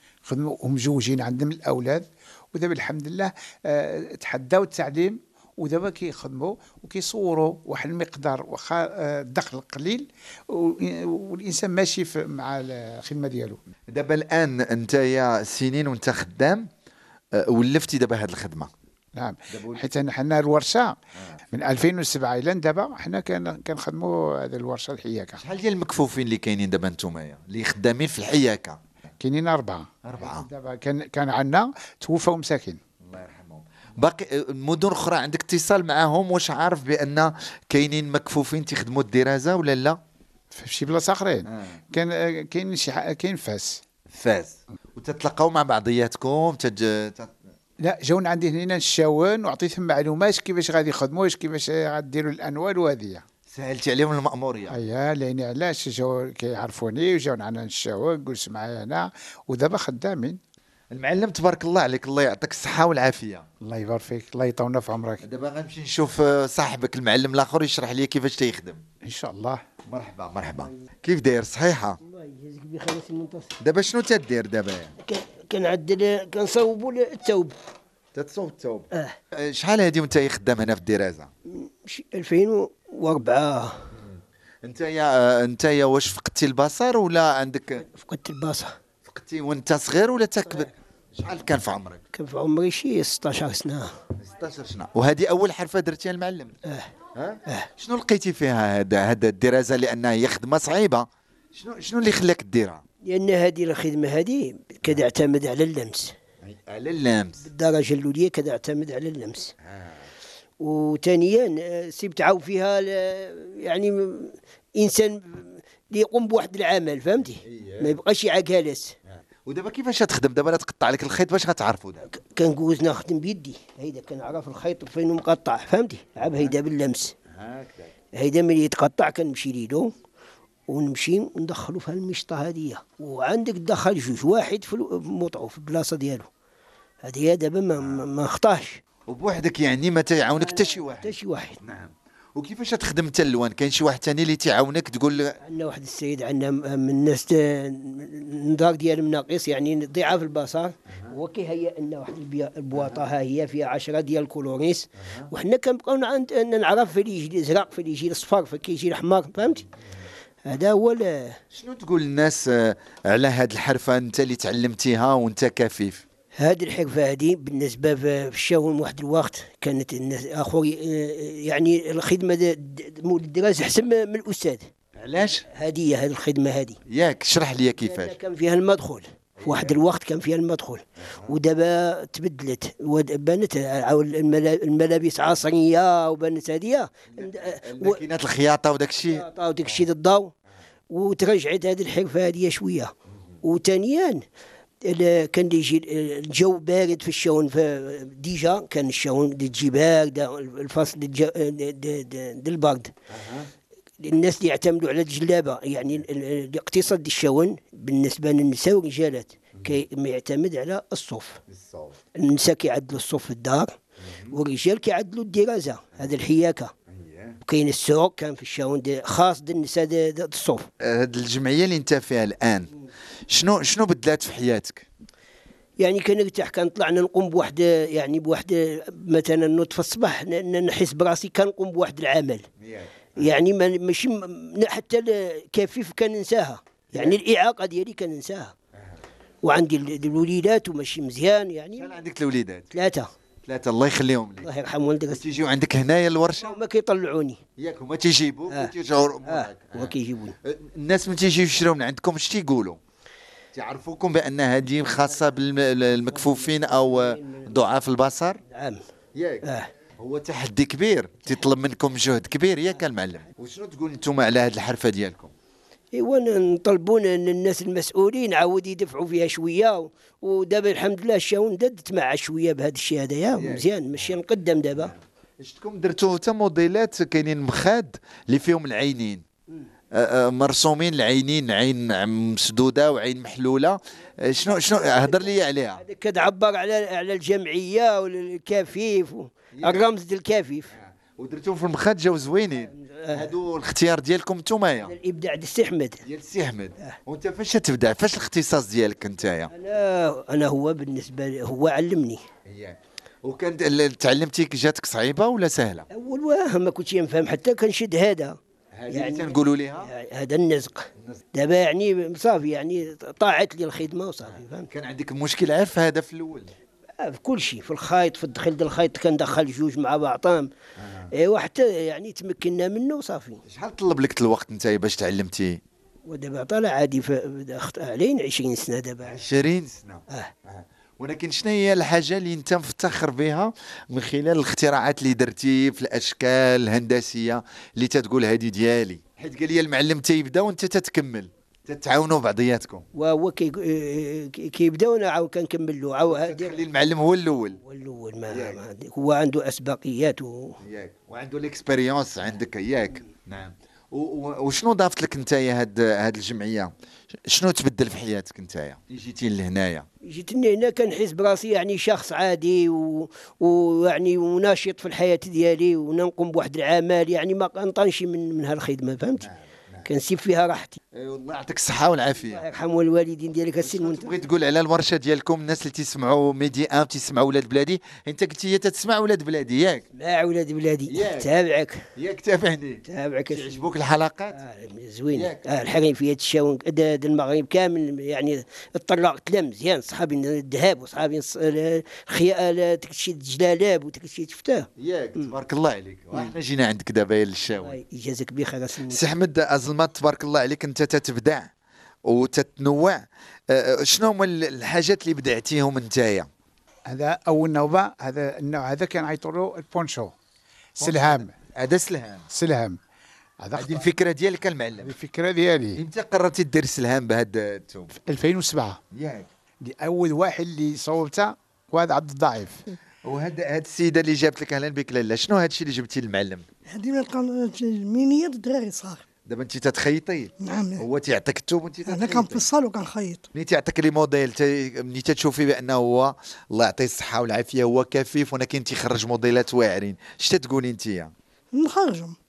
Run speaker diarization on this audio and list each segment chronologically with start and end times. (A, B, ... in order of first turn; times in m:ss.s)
0:00.3-0:13.6 A
0:13.9-0:16.7 B
0:17.4-0:18.7 B
0:19.2-0:21.0 A
0:19.5-0:19.9 B
0:21.5-0:25.4 A
0:25.4-0:28.8 B
0:29.2-0:32.8 A
0:30.0-0:30.5 B
0:33.0-0:40.0 B
0:40.5-0:43.8 A
0:41.4-0:41.8 B
0:44.1-0:47.3 B
0:47.8-0:53.2 A
0:53.5-0:54.8 B
0:54.7-1:00.4 A
1:00.9-1:03.5 B
1:03.6-1:05.2 A
1:05.2-1:08.8 B
1:09.0-1:09.6 A
1:09.9-1:12.0 B
1:12.0-1:13.6 C
1:13.6-1:15.0 B
1:15.0-1:17.5 C
1:18.2-1:21.3 B
1:21.5-1:23.9 C
1:24.0-1:27.8 B
1:27.8-1:28.8 C
1:29.0-1:32.0 B
1:32.1-1:33.9 C
1:34.2-1:36.6 B
1:37.2-1:42.8 B
1:43.0-1:46.1 C
1:46.4-1:47.5 B
1:47.4-1:49.5 C
1:49.6-1:50.1 B
1:50.6-1:59.0 C
1:57.4-1:58.0 B
1:59.4-2:02.1 B
2:02.1-2:07.1 C
2:06.2-2:06.5 B
2:07.3-2:07.9 B
2:08.1-2:09.9 C
2:10.7-2:16.3 C
2:17.0-2:18.8 C
2:17.8-2:18.1 B
2:19.1-2:25.4 B
2:20.4-2:21.6 C
2:25.4-2:39.7 C
2:32.7-2:33.0 B
2:35.0-2:35.3 B
2:40.5-2:41.4 C
2:41.5-2:46.0 B
2:46.4-2:54.7 C
2:55.0-2:55.4 B
2:55.5-2:56.8 C
2:56.9-2:58.2 B
2:57.8-3:08.0 C
2:59.4-2:59.8 B
3:01.0-3:01.4 B
3:07.1-3:09.8 B
3:09.1-3:10.3 C
3:10.9-3:14.2 C
3:14.8-3:22.9 C
3:23.1-3:23.5 B
3:24.0-3:31.4 C
3:31.5-3:32.0 B
3:32.2-3:33.7 C
3:34.0-3:34.4 B
3:34.3-3:36.7 C
3:36.9-3:37.4 B
3:37.4-3:40.7 C
3:40.8-3:44.9 B
3:45.8-3:52.4 C
3:52.6-3:53.3 B
3:53.2-3:58.5 C
3:56.9-3:57.2 B
3:58.8-3:59.0 B
3:59.4-4:01.9 C
4:01.8-4:02.7 B
4:02.7-4:03.1 C
4:03.5-4:04.5 B
4:04.4-4:05.3 C
4:05.1-4:06.6 B
4:06.4-4:07.4 C
4:07.6-4:12.8 B
4:09.2-4:10.4 C
4:13.5-4:18.4 B
4:16.0-4:17.6 C
4:18.5-4:18.8 C
4:19.2-4:19.5 B
4:19.4-4:19.7 C
4:20.0-4:25.3 B
4:25.9-4:34.9 C
4:33.4-4:34.2 B
4:34.8-4:39.2 B
4:39.9-4:45.8 B
4:44.7-4:50.7 C
4:49.6-4:49.9 B
4:50.8-4:55.0 B
4:52.6-4:53.3 C
4:54.8-4:56.0 C
4:56.0-4:59.5 B
4:59.5-5:02.2 C
5:02.5-5:05.9 B
5:05.9-5:08.4 C
5:08.8-5:09.9 B
5:08.9-5:14.7 C
5:14.3-5:16.5 B
5:17.0-5:20.5 C
5:20.8-5:21.1 B
5:21.1-5:23.4 C
5:23.5-5:25.6 B
5:26.0-5:29.2 C
5:29.0-5:42.9 B
5:42.9-5:46.6 C
5:46.1-5:47.6 B
5:47.6-5:50.6 C
5:48.3-5:48.6 B
5:50.6-5:56.7 B
5:57.3-5:59.9 B
6:00.0-6:09.3 C
6:09.2-6:09.9 B
6:09.8-6:10.8 C
6:10.9-6:12.5 B
6:12.2-6:14.2 C
6:13.6-6:19.9 B
6:19.9-6:21.8 C
6:20.9-6:21.3 B
6:22.0-6:24.4 B
6:22.9-6:23.7 C
6:24.3-6:34.7 C
6:25.1-6:25.5 B
6:34.8-6:37.8 B
6:37.6-6:39.0 C
6:38.9-6:41.5 B
6:42.1-6:46.3 B
6:46.9-6:50.1 A
6:50.8-6:51.3 A
6:50.8-6:52.3 B
6:52.3-6:52.8 A
6:53.4-6:53.9 A
6:53.6-6:55.0 B
6:54.8-6:55.8 A
6:55.8-6:57.9 B
6:58.0-6:58.8 A
6:58.9-6:59.3 B
6:59.6-7:02.7 A
7:03.0-7:06.5 B
7:06.8-7:09.0 D
7:09.3-7:12.5 B
7:10.4-7:10.8 D
7:11.9-7:13.2 D
7:13.4-7:21.1 B
7:21.5-7:22.2 D